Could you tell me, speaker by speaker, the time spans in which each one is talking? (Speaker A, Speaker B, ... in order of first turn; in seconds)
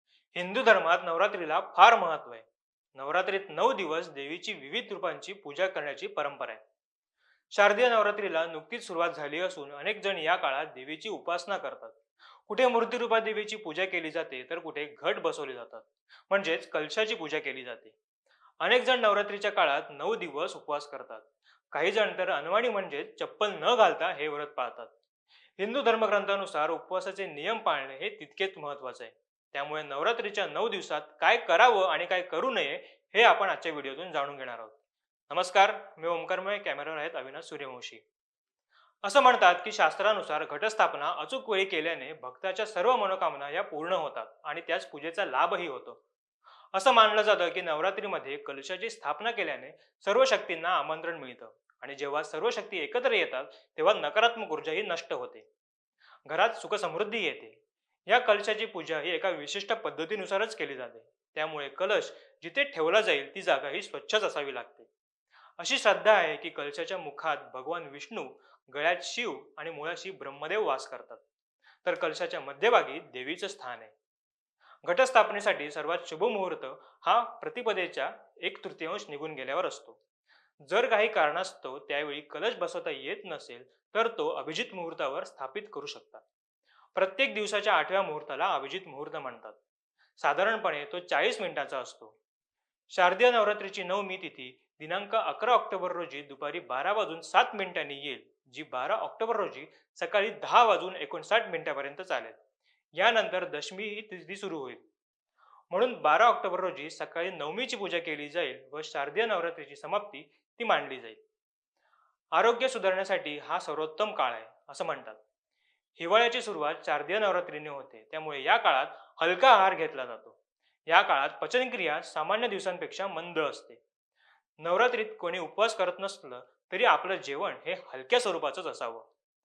Speaker A: 0.3-6.6, 7.5-17.9, 18.6-24.9, 25.6-34.8, 35.3-38.0, 39.0-46.0, 46.7-55.4, 56.2-57.6, 58.1-64.9, 65.6-71.2, 71.8-73.9, 74.8-80.0, 80.6-86.2, 86.9-89.6, 90.2-92.1, 92.9-102.4, 103.0-104.8, 105.7-111.2, 112.3-115.2, 116.0-120.3, 120.9-123.8, 124.6-129.1